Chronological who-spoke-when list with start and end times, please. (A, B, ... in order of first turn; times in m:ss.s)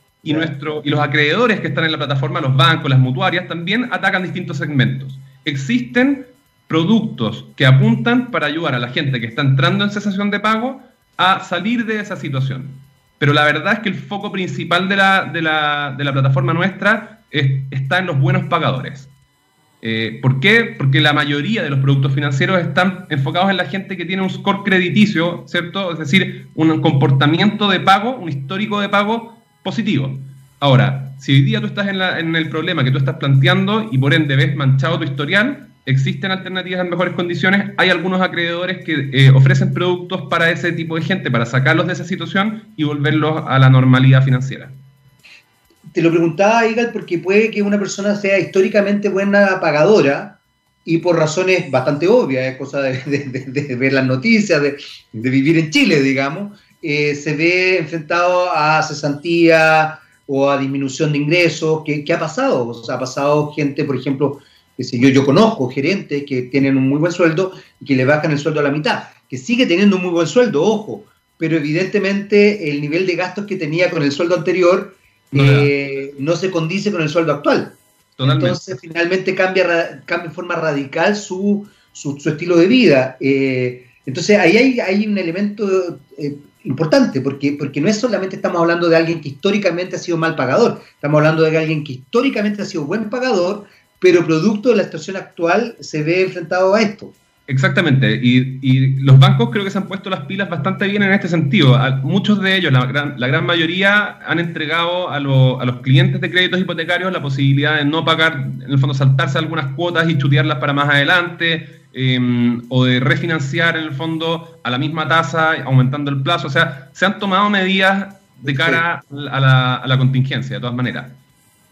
0:00.2-0:19.1 A
0:00.3-0:00.6 B
0:19.8-0:44.8 A
0:45.9-1:37.2 B
1:15.3-1:15.7 A
1:18.2-1:18.8 A
1:37.5-2:01.2 A
1:58.5-1:58.8 B